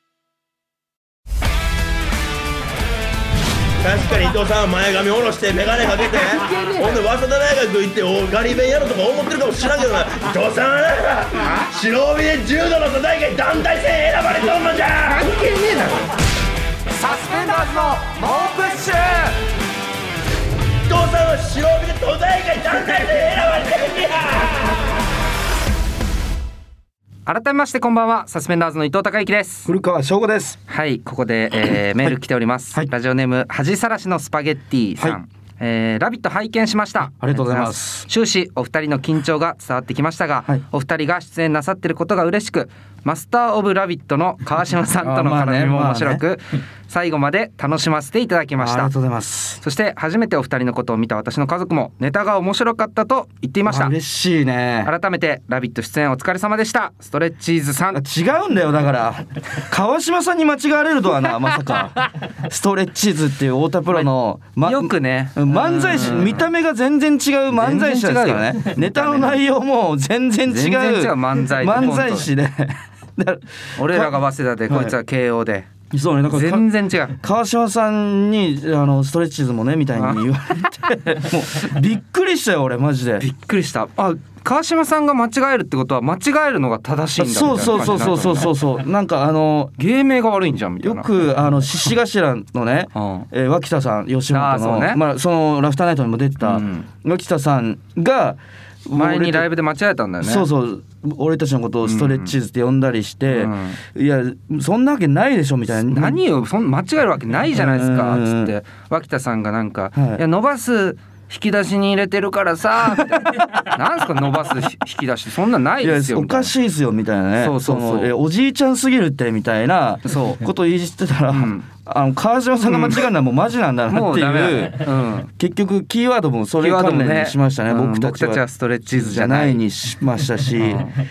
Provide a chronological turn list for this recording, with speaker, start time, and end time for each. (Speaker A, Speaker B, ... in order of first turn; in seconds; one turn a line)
Speaker A: 3.8-15.3
Speaker B: 6.2-6.9
Speaker B: 15.1-16.1
Speaker B: 17.0-18.2
Speaker C: 17.0-19.3
Speaker A: 20.9-24.8
Speaker B: 27.2-29.7
Speaker C: 29.7-30.6
Speaker B: 30.7-48.9
Speaker C: 37.2-38.1
Speaker C: 45.0-46.2
Speaker C: 48.6-49.6
Speaker B: 49.6-53.9
Speaker C: 53.6-54.9
Speaker B: 54.8-58.0
Speaker C: 57.9-74.2
Speaker B: 64.6-66.5
Speaker B: 67.5-69.4
Speaker B: 70.5-72.3
Speaker B: 73.8-75.7
Speaker C: 74.7-74.9
Speaker C: 75.9-83.2
Speaker B: 76.3-77.2
Speaker B: 80.0-80.2
Speaker B: 83.2-88.6
Speaker C: 87.2-89.7
Speaker B: 89.8-91.1
Speaker C: 90.8-99.5
Speaker B: 92.9-93.3
Speaker B: 94.3-95.0
Speaker B: 96.4-96.9
Speaker B: 98.9-100.5
Speaker C: 100.2-106.2
Speaker B: 101.8-102.3
Speaker B: 103.3-103.8
Speaker B: 105.8-116.5
Speaker C: 107.5-108.5
Speaker C: 110.0-110.2
Speaker C: 113.0-113.5
Speaker C: 115.8-130.9
Speaker B: 117.4-118.1
Speaker B: 120.0-120.4
Speaker B: 121.3-121.7
Speaker B: 122.6-123.0
Speaker B: 123.9-125.3
Speaker B: 126.6-129.6
Speaker B: 130.5-130.9